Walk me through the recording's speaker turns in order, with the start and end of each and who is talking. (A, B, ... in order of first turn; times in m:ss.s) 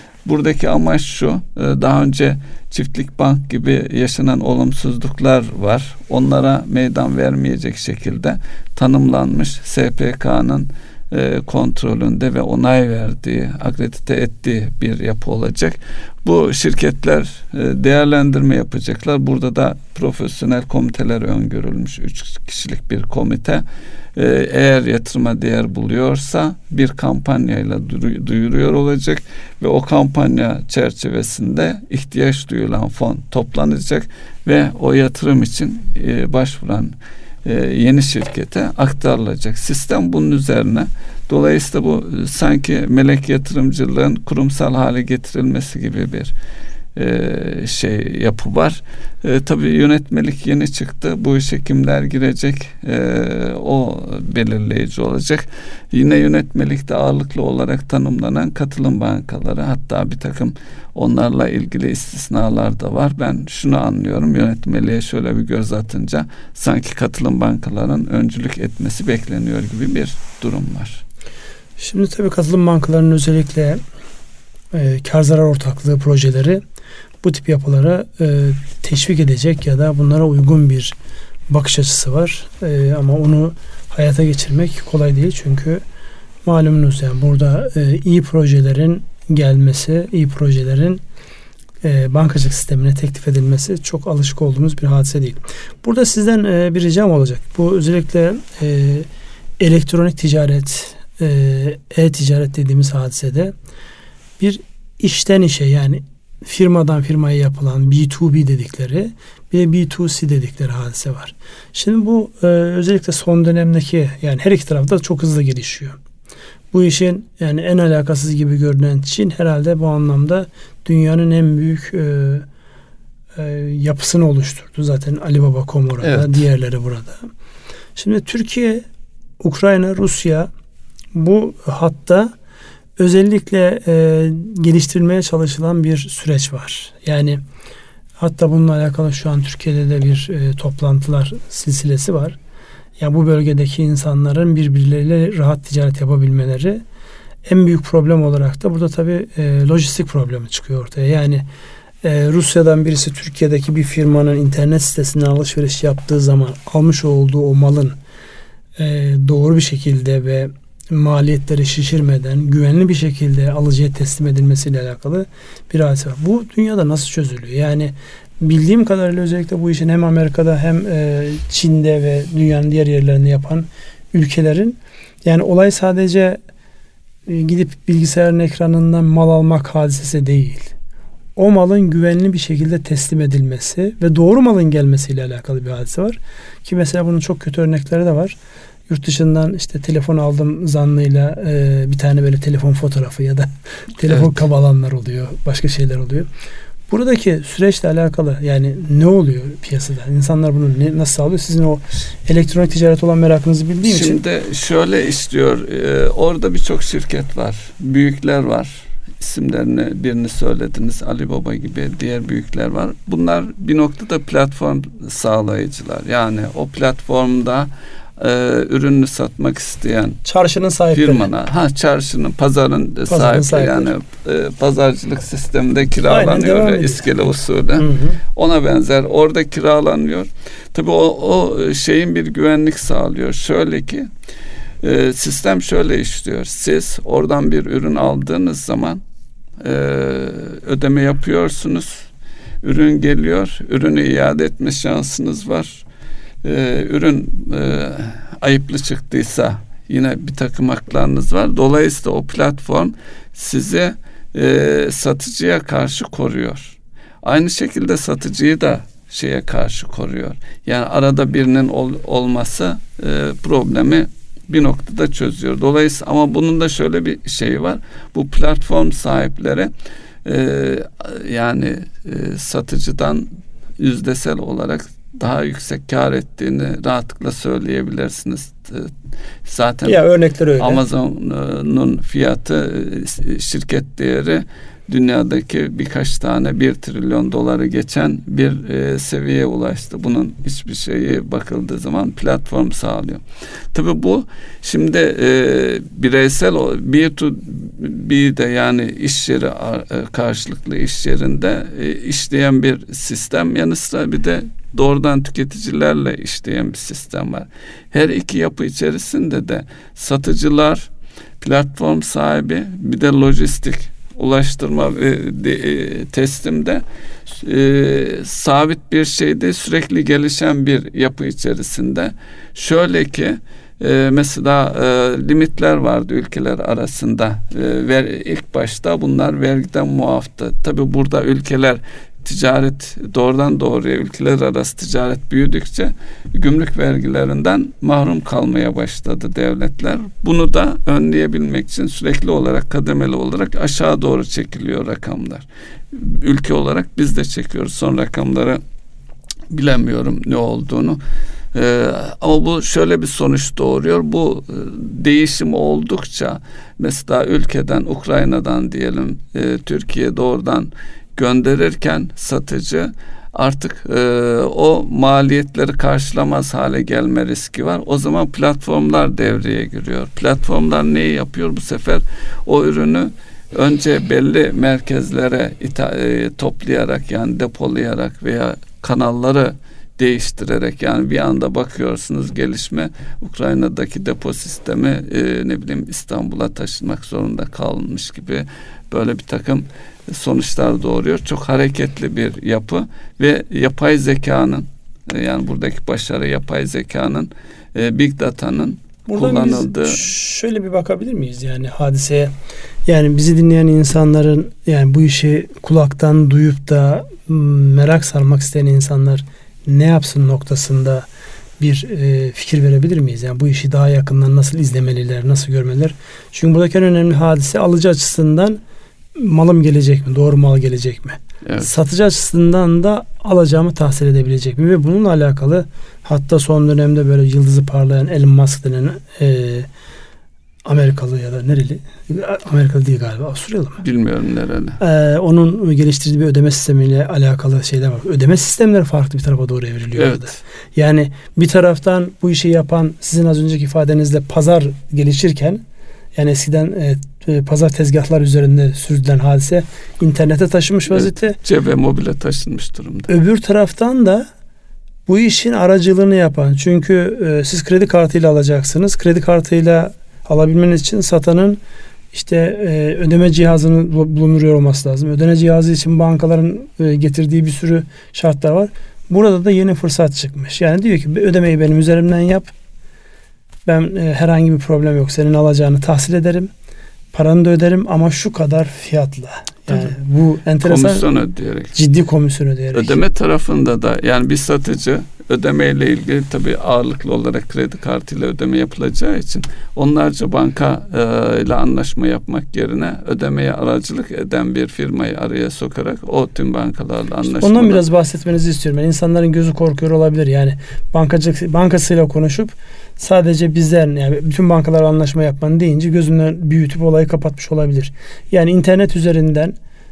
0:00.2-0:23.6 A
0:24.1-0:46.3 A
0:46.9-1:11.0 A
1:11.8-1:13.8 B
1:14.7-1:16.6 B
1:17.2-1:20.9 B
1:21.5-1:25.8 B
1:26.4-1:31.0 B
1:31.8-1:39.1 B
1:39.6-1:43.5 B
1:44.4-1:56.0 B
1:56.7-2:02.4 B
2:03.4-2:07.2 B
2:06.0-2:06.4 A
2:08.0-2:08.8 B
2:09.4-2:10.5 B
2:11.1-2:12.3 B
2:13.0-2:17.4 B
2:18.2-2:22.4 B
2:23.0-2:26.8 B
2:27.4-2:31.4 B
2:32.0-2:38.0 B
2:38.8-2:56.4 B
2:57.3-3:00.7 B
3:01.4-3:08.4 B
3:08.9-3:16.3 B
3:14.1-3:14.4 A
3:16.9-3:24.2 B
3:23.8-3:40.2 A
3:40.2-3:41.3 B
3:40.9-3:54.1 A
3:43.1-3:43.9 B
3:46.1-3:48.2 B
3:54.8-3:59.0 A
3:59.6-4:02.0 A
4:02.6-4:05.8 A
4:06.4-4:29.7 A
4:30.2-4:33.2 A
4:33.8-4:40.0 A
4:39.8-4:40.8 B
4:40.6-5:48.6 A
5:49.5-5:51.0 A
5:51.5-6:40.1 A
6:39.1-6:42.3 B
6:42.8-6:51.1 B
6:51.6-6:58.6 B
6:59.2-7:09.7 B
7:01.4-7:01.7 A
7:10.6-7:13.8 B
7:13.8-7:14.8 A
7:14.8-7:25.6 B
7:20.0-7:20.4 A
7:26.1-7:31.4 B
7:30.9-7:33.1 A
7:33.1-7:34.2 B
7:35.1-7:41.6 B
7:42.1-7:52.5 B
7:53.6-7:56.5 B
7:57.1-8:01.1 B
8:00.6-8:01.7 A
8:01.7-8:03.0 B
8:02.7-8:17.8 A
8:17.3-8:29.6 B